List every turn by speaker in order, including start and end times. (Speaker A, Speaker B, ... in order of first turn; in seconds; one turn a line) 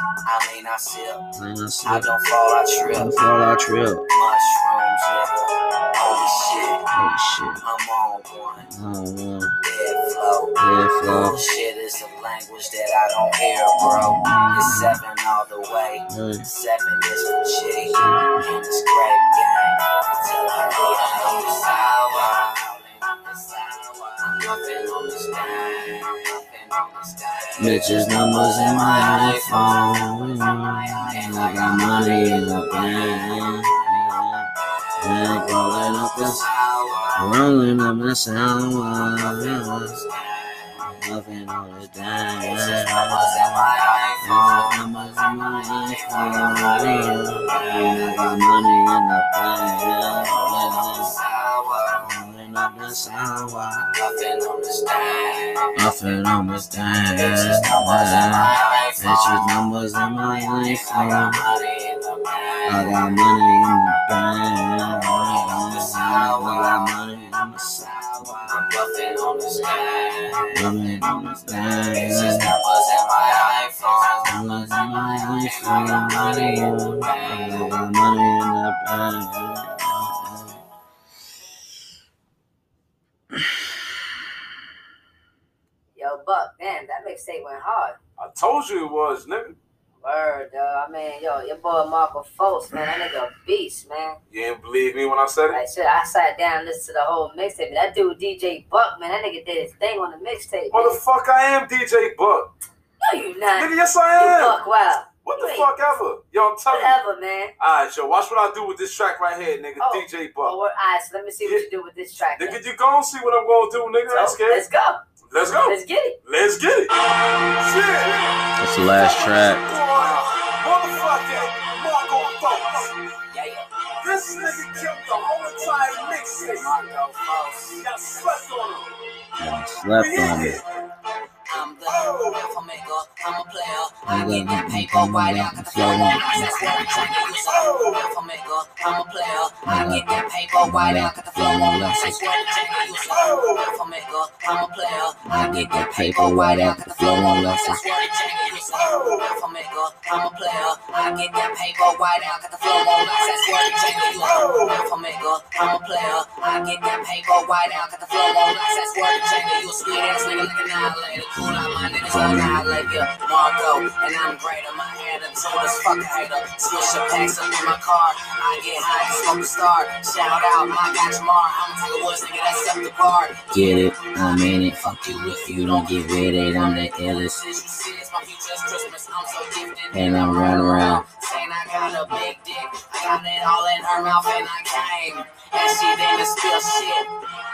Speaker A: 0.2-1.2
Speaker B: 1.4-2.1
Speaker A: 1.8-3.2
Speaker B: 2.9-4.0
Speaker A: 4.1-6.9
Speaker B: 6.9-7.6
Speaker A: 7.6-8.7
Speaker B: 8.6-9.6
Speaker A: 9.6-34.1
Speaker B: 10.6-11.4
Speaker B: 13.8-15.0
Speaker B: 16.1-16.5
Speaker B: 17.8-18.4
Speaker B: 27.6-36.4
Speaker A: 34.9-37.4
Speaker B: 37.1-40.0
Speaker A: 38.7-40.7
Speaker B: 40.8-43.7
Speaker A: 42.4-48.4
Speaker B: 44.2-51.1
Speaker A: 50.2-52.1
Speaker B: 52.0-53.9
Speaker A: 53.8-56.2
Speaker B: 55.8-61.4
Speaker A: 57.1-59.5
Speaker A: 60.2-63.1
Speaker B: 62.6-68.3
Speaker A: 64.8-70.7
Speaker B: 70.5-72.5
Speaker A: 71.9-77.8
Speaker B: 74.2-80.6
Speaker C: 85.9-88.0
Speaker D: 88.2-89.6
Speaker C: 90.0-94.2
Speaker D: 94.3-95.6
Speaker C: 95.5-101.0
Speaker D: 100.7-102.5
Speaker C: 103.0-105.7
Speaker D: 103.5-104.6
Speaker D: 105.2-107.0
Speaker C: 106.7-107.5
Speaker D: 107.6-110.5
Speaker C: 109.8-112.6
Speaker D: 111.4-111.7
Speaker D: 112.3-114.6
Speaker C: 114.1-115.0
Speaker D: 115.3-118.3
Speaker C: 115.6-116.2
Speaker B: 118.6-119.6
Speaker D: 119.6-122.9
Speaker A: 119.9-120.5
Speaker A: 123.3-123.7
Speaker D: 124.0-126.7
Speaker A: 126.5-127.9
Speaker D: 127.8-128.9
Speaker B: 129.4-130.6
Speaker D: 129.9-130.6
Speaker A: 131.5-187.1
Speaker D: 131.9-132.4
Speaker B: 134.1-137.1
Speaker D: 137.5-138.0
Speaker B: 139.7-142.2
Speaker D: 143.1-143.6
Speaker B: 145.2-147.8
Speaker D: 148.8-149.2
Speaker D: 154.2-154.7
Speaker B: 161.1-163.1
Speaker B: 173.5-177.4
Speaker B: 179.9-181.0